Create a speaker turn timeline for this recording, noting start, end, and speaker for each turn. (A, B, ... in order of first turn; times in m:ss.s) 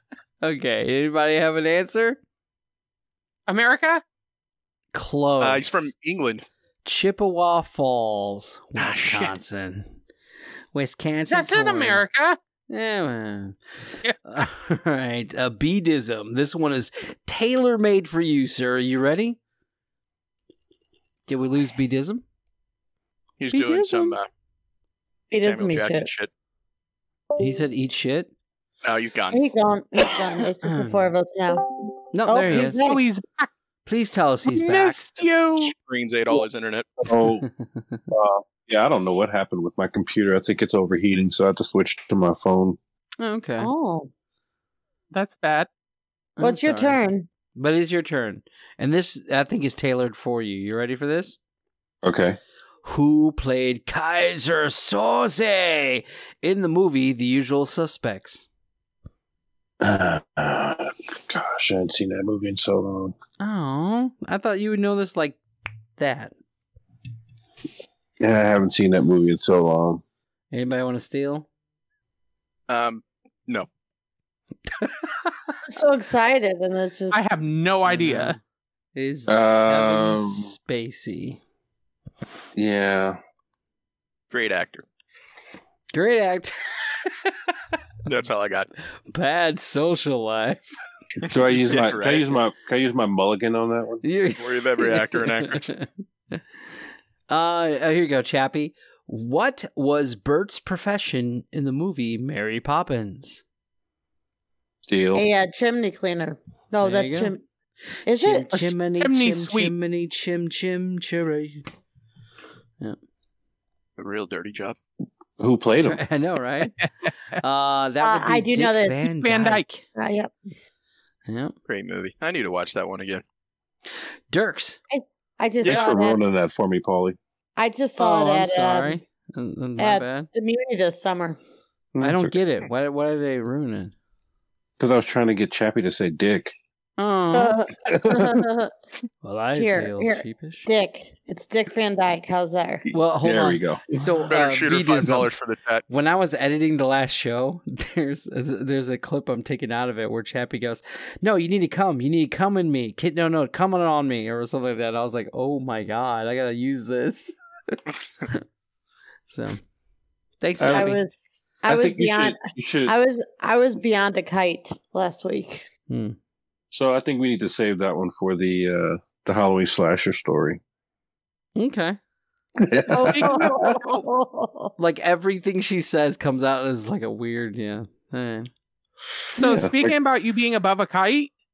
0:00.4-0:02.2 A
0:03.5-0:04.0 B
0:04.9-0:05.9 A
0:05.4-0:06.5 C
0:06.8-0:10.0 A
0:08.8-0:09.4 C
0:10.7-0:12.0 A
0:11.3-0:12.4 B
0:12.7-0:13.6 A
0:14.3-0:19.4 A
0:21.3-0:22.2 A
0:23.4-0:24.3 C
0:23.5-0:24.2 A
0:25.3-0:26.1 D
0:25.4-0:26.3 C
0:27.4-0:28.3 A
0:28.8-0:29.4 C
0:29.3-0:33.0 D
0:30.7-0:31.1 A
0:32.1-0:32.8 A
0:32.5-0:33.5 B
0:33.9-0:35.0 A
0:34.5-0:35.7 B
0:35.6-0:36.9 C
0:37.0-0:37.5 E
0:37.4-0:38.0 A
0:38.1-0:42.8 E
0:43.2-0:43.7 A
0:43.6-0:44.1 D
0:45.1-0:45.7 B
0:46.4-0:47.0 A
0:46.4-0:47.3 D
0:47.6-0:51.4 A
0:52.0-0:52.4 E
0:52.8-0:58.4 A
0:59.8-1:03.1 E
1:03.4-1:05.4 A
1:06.0-1:06.3 A
1:08.2-1:10.0 E
1:10.5-1:11.5 A
1:12.7-1:13.7 C
1:14.8-1:15.3 A
1:15.7-1:17.2 D
1:17.1-1:18.4 B
1:17.9-1:18.4 A
1:19.0-1:21.4 A
1:19.3-1:20.5 E
1:22.6-1:23.2 E
1:24.3-1:24.8 C
1:25.9-1:27.3 A
1:28.0-1:28.7 C
1:29.1-1:30.7 A
1:31.2-1:32.3 C
1:31.3-1:34.0 E
1:34.0-1:36.4 A
1:34.4-1:35.7 C
1:37.3-1:43.4 A
1:44.8-1:45.2 E
1:45.1-1:47.4 D
1:46.8-1:47.4 A
1:48.1-1:48.7 D
1:48.1-1:51.6 A
1:49.0-1:49.7 B
1:54.0-1:54.8 C
1:55.4-1:56.0 E
1:55.8-1:56.8 A
1:56.8-1:57.1 B
1:57.4-1:59.6 A
1:58.0-1:59.0 D
1:59.1-1:59.9 B
2:00.0-2:00.4 D
2:01.3-2:01.6 A
2:01.7-2:03.2 C
2:04.3-2:04.8 A
2:04.9-2:06.2 D
2:05.6-2:06.0 C
2:05.6-2:07.2 E
2:07.6-2:09.0 D
2:08.0-2:10.3 A
2:09.8-2:11.4 D
2:12.0-2:12.4 E
2:12.0-2:13.9 A
2:14.8-2:16.6 E
2:17.0-2:17.6 A
2:17.3-2:18.7 D
2:19.2-2:20.7 A
2:19.5-2:22.8 D
2:22.9-2:24.0 E
2:22.9-2:25.3 A
2:24.3-2:25.8 C
2:25.9-2:38.4 A
2:39.3-2:39.6 A
2:40.4-2:41.0 A
2:40.6-2:40.9 E
2:40.7-2:45.7 D
2:41.7-2:42.9 E
2:45.9-2:46.2 A
2:46.7-2:50.6 E
2:51.6-2:52.0 A
2:52.6-2:53.9 E
2:52.9-2:54.7 D
2:53.0-2:53.5 B
2:54.8-2:58.5 A
2:59.3-3:01.3 B
2:59.4-3:00.0 E